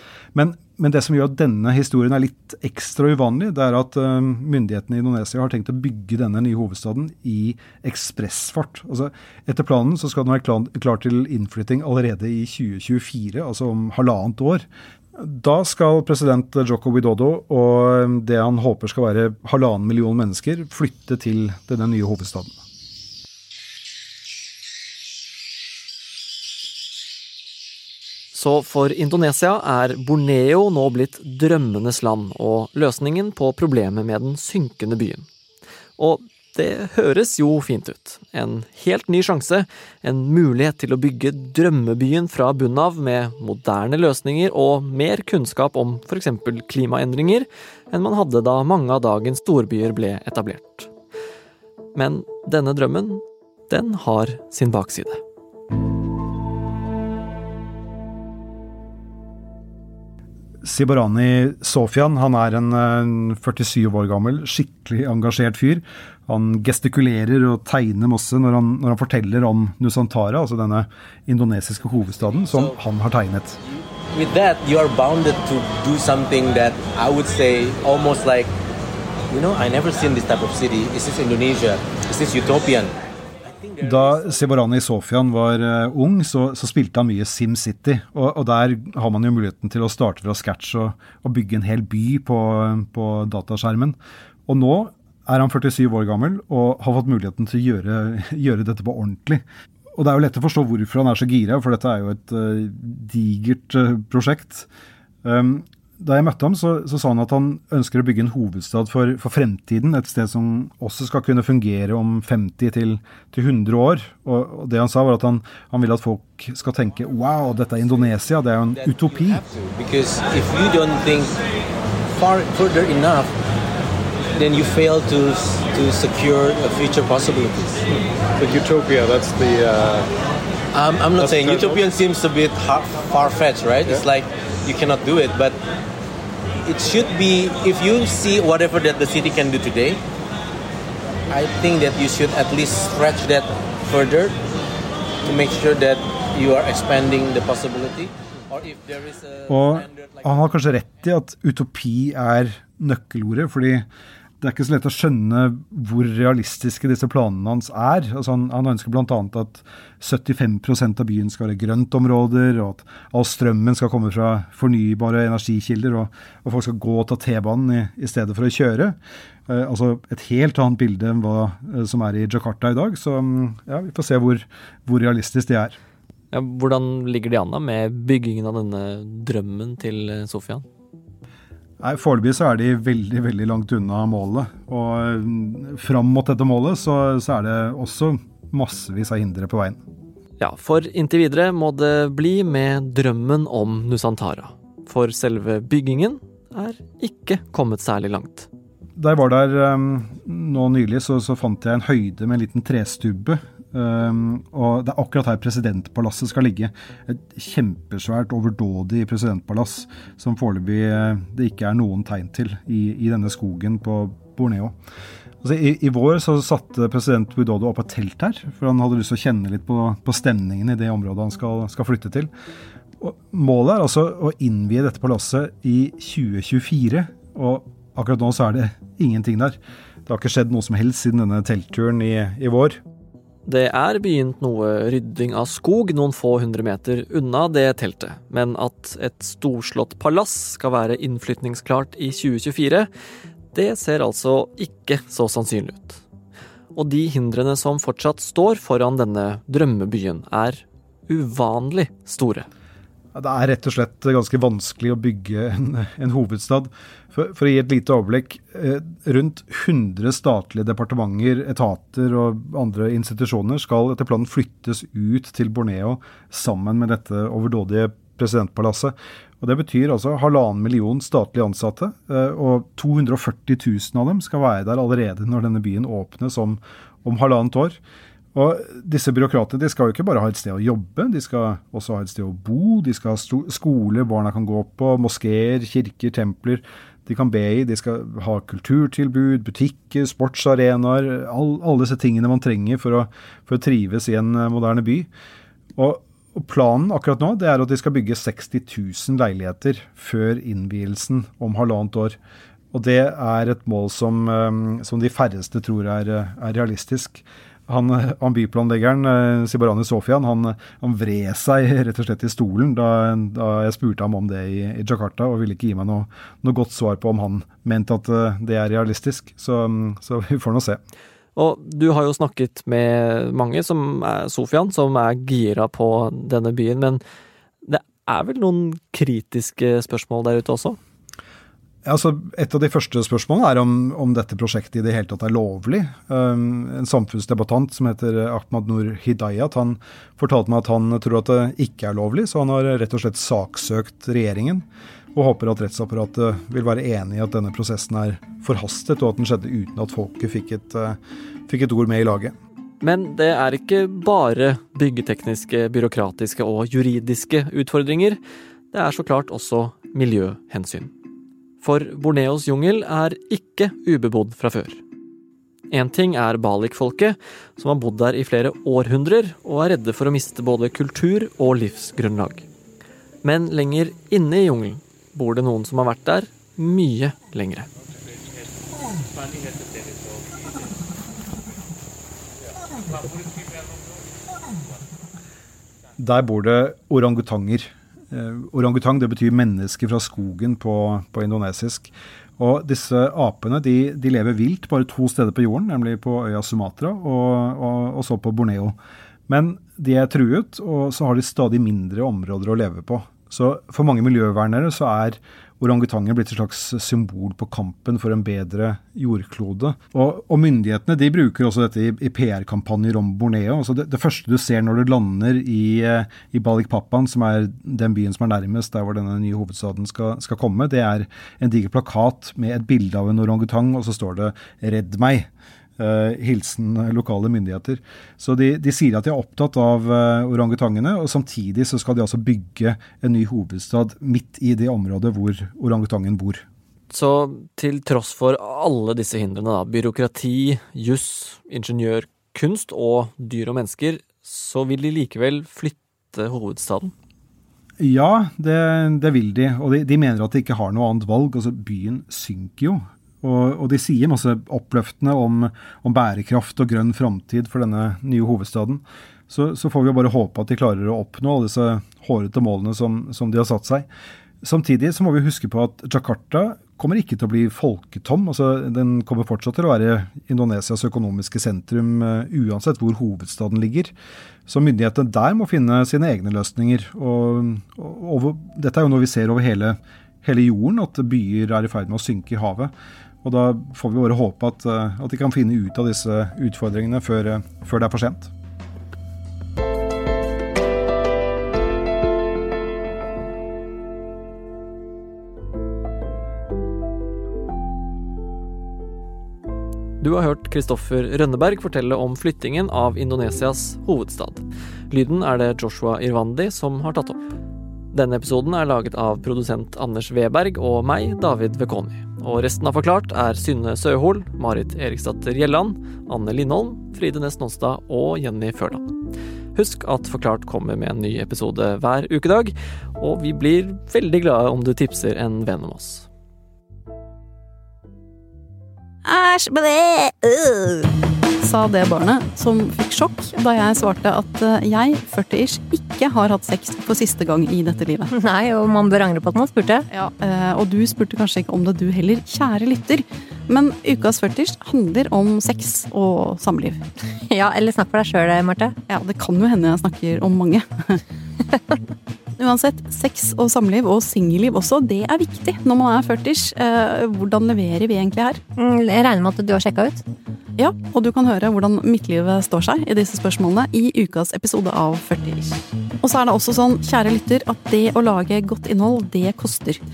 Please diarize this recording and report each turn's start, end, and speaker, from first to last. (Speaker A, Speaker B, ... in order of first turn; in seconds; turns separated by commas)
Speaker A: 0.3-22.6, Speaker B: 28.3-35.3, Speaker B: 36.0-50.9, Speaker B: 52.0-55.2, Speaker A: 60.6-73.6, Speaker C: 71.9-72.7, Speaker C: 73.6-78.5, Speaker C: 79.3-84.5, Speaker A: 83.8-94.0, Speaker A: 94.5-99.4, Speaker A: 100.0-104.7, Speaker A: 105.2-119.5, Speaker C: 119.3-121.4, Speaker C: 122.1-123.3, Speaker C: 124.3-127.9, Speaker D: 128.4-130.1, Speaker C: 130.7-135.6, Speaker D: 131.2-131.8, Speaker C: 136.7-140.0, Speaker C: 141.3-144.4, Speaker C: 145.2-150.1, Speaker A: 149.5-153.9, Speaker A: 154.4-169.0, Speaker A: 169.5-175.8, Speaker B: 176.3-180.7, Speaker A: 181.8-189.8, Speaker B: 190.4-198.5, Speaker A: 199.0-214.7, Speaker A: 215.4-222.3, Speaker A: 223.0-232.8, Speaker B: 233.4-242.9, Speaker B: 243.5-246.0, Speaker B: 246.7-252.5, Speaker A: 253.1-277.8, Speaker A: 278.3-295.1, Speaker A: 295.8-302.2, Speaker A: 302.7-320.8, Speaker B: 321.4-327.0, Speaker B: 327.6-330.8, Speaker A: 331.9-352.4, Speaker B: 352.8-358.2, Speaker B: 358.7-360.9, Speaker B: 361.6-364.8, Speaker B: 365.7-372.5, Speaker B: 373.2-377.7, Speaker A: 386.0-398.8, Speaker A: 399.3-436.4, Speaker B: 436.9-446.9, Speaker A: 447.8-463.9, Speaker A: 464.4-473.9, Speaker A: 474.5-482.7, Speaker A: 483.2-488.3, Speaker B: 500.0-507.3, Speaker B: 507.9-518.9, Speaker B: 519.5-526.1, Speaker E: 529.0-530.9, Speaker E: 531.4-538.1, Speaker F: 538.1-539.9, Speaker E: 539.9-546.8, Speaker F: 547.3-548.8, Speaker E: 548.9-551.0, Speaker E: 552.4-558.4, Speaker F: 558.6-560.0, Speaker E: 560.6-569.8